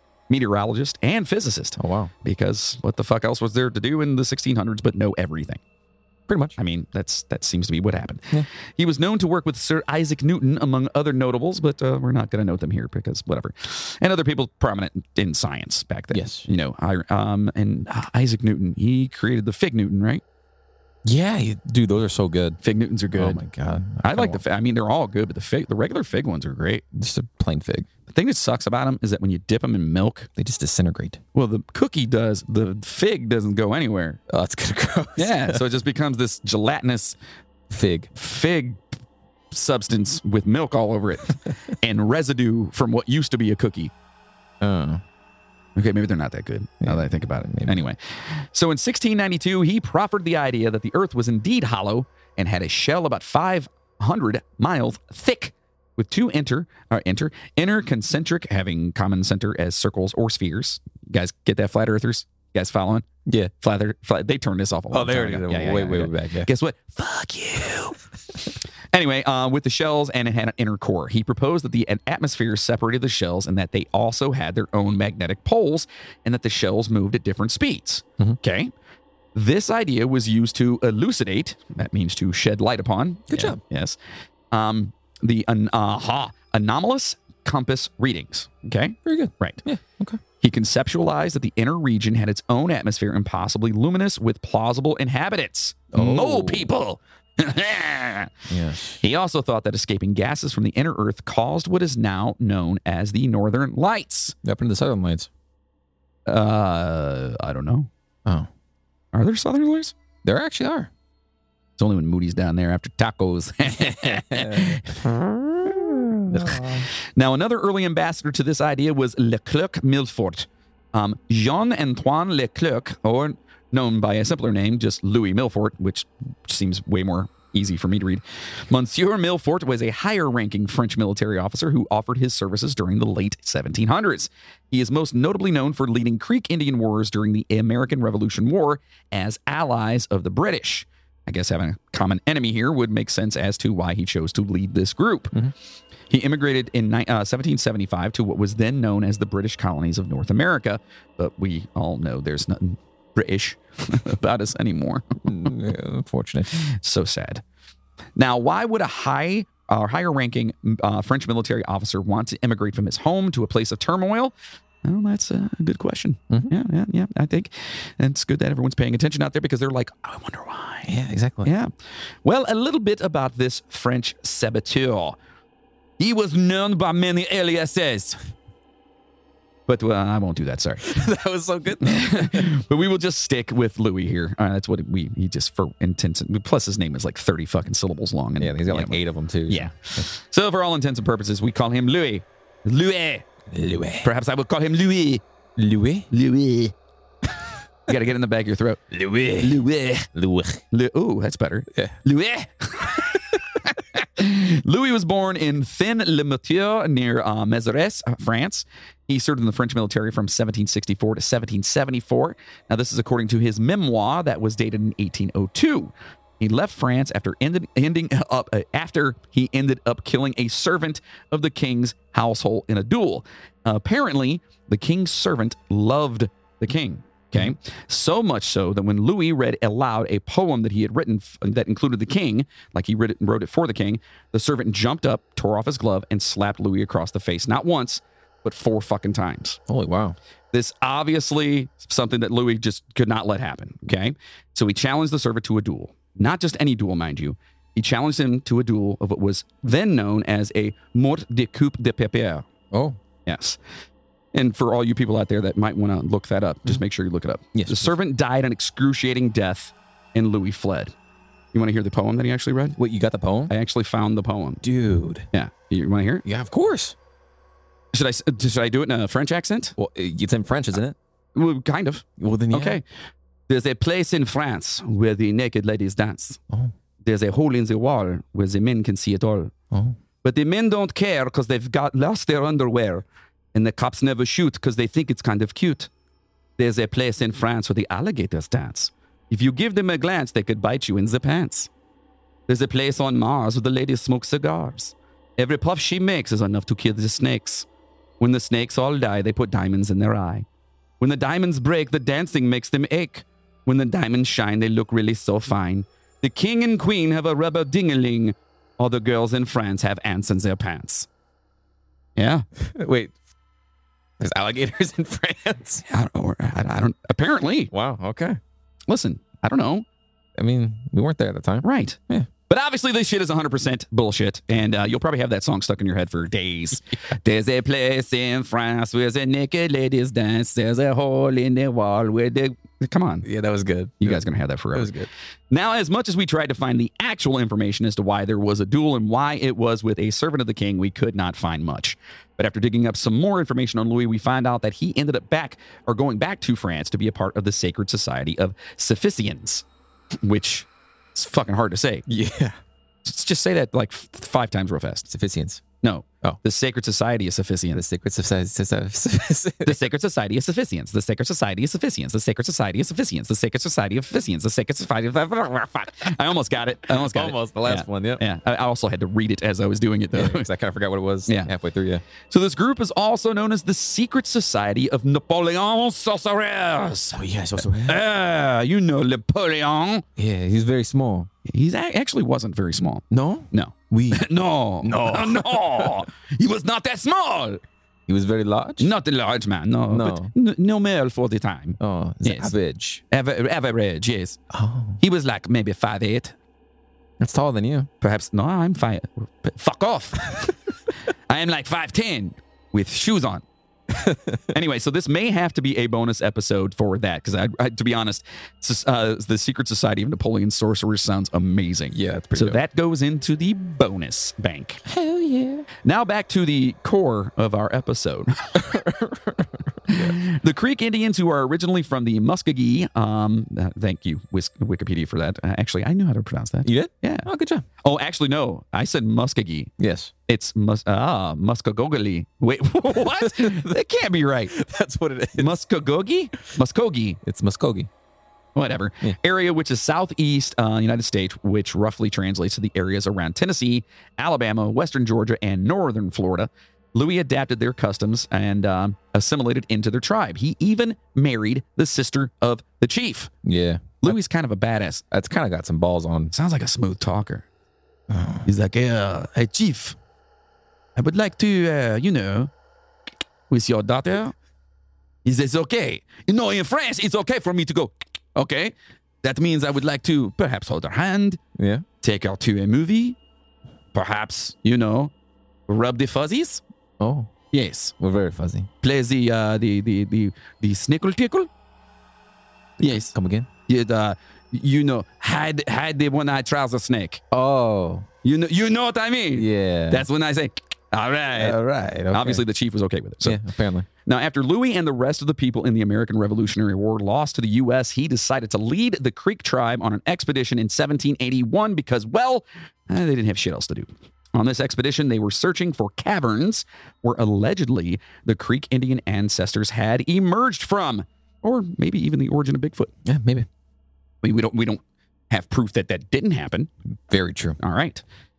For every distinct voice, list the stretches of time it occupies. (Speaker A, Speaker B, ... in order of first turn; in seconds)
Speaker A: 0.3-5.6, 6.6-20.2, 22.6-23.4, 24.0-26.8, 28.1-30.3, 31.4-34.2, 35.2-37.2, 38.1-38.8, 39.5-43.9, 45.8-63.1, 63.6-68.0, 68.9-78.7, 79.3-84.0, 84.5-89.6, 90.4-98.3, 99.0-104.4, 106.3-107.9, 109.1-109.9, 111.8-115.1, 116.4-145.3, 146.1-155.5, 156.6-157.4, 158.2-170.9, 171.4-171.7, 172.2-175.2, 176.0-178.2, 179.7-181.0, 181.8-193.3, 194.0-195.2, 196.1-196.7, 197.9-198.8, 199.4-200.1, 200.7-239.6, 240.5-252.5, 253.3-253.6, 254.3-260.9, 261.5-262.8, 263.5-264.6, 265.3-266.2, 267.9-269.7, 271.4-272.9, 273.5-276.4, 277.0-279.5, 280.2-285.9, 286.6-291.7, 292.5-297.7, 298.2-300.5, 301.0-311.1, 312.2-312.4, 315.9-317.7, 318.9-319.9, 321.6-333.3, 334.0-334.9, 335.5-349.6, 350.2-352.1, 353.1-355.1, 355.8-357.8, 359.6-370.5, 372.3-377.2, 377.8-380.1, 381.4-387.6, 388.8-392.5, 393.1-394.4, 395.0-396.4, 398.0-400.6, 401.3-403.4, 404.5-414.8, 415.8-418.7, 419.9-427.3, 427.8-429.7, 430.3-434.5, 435.4-437.2, 438.6-453.3, 454.0-455.0, 456.3-457.4, 458.4-460.0, 461.0-462.5, 463.5-464.4, 465.2-471.4, 472.0-473.2, 473.9-475.1, 475.7-476.6, 477.5-477.9, 478.8-481.5, 482.8-483.1, 483.7-487.2, 488.2-491.6, 492.1-493.4, 494.1-512.9, 514.2-516.7, 517.6-518.0
Speaker B: 1.8-2.1, 6.3-6.6, 16.1-16.5, 21.1-22.6, 23.1-24.4, 26.9-27.9, 30.4-31.2, 34.3-35.6, 37.7-38.1, 44.6-45.0, 46.8-47.8, 63.3-63.5, 64.9-66.5, 83.3-83.6, 89.0-90.2, 95.9-96.7, 98.5-99.0, 104.4-105.3, 110.2-110.9, 113.8-116.9, 155.3-156.7, 170.9-171.5, 180.8-182.5, 188.4-190.1, 193.5-194.1, 195.6-196.1, 198.9-200.6, 239.7-240.2, 252.7-253.0, 257.5-257.9, 262.8-263.5, 264.6-265.3, 266.2-266.9, 269.8-271.0, 272.2-272.8, 312.6-313.1, 314.2-315.8, 317.7-318.4, 320.4-322.3, 333.2-335.1, 352.1-352.6, 355.1-355.6, 357.7-359.8, 366.9-368.2, 370.1-372.0, 377.1-378.0, 380.2-381.3, 383.1-384.3, 384.8-386.0, 388.1-388.9, 389.9-390.3, 391.8-393.0, 394.5-395.0, 397.2-397.9, 403.9-404.4, 411.9-412.6, 414.9-415.7, 418.6-420.2, 426.6-427.6, 429.8-430.1, 432.9-433.8, 434.5-435.6, 437.2-437.9, 453.4-454.2, 455.1-456.3, 458.1-458.5, 471.6-471.9, 477.0-477.3, 478.0-478.7, 482.8-483.5, 487.3-488.1, 489.4-490.1, 491.4-492.4, 493.2-493.9, 513.0-513.5, 517.1-517.6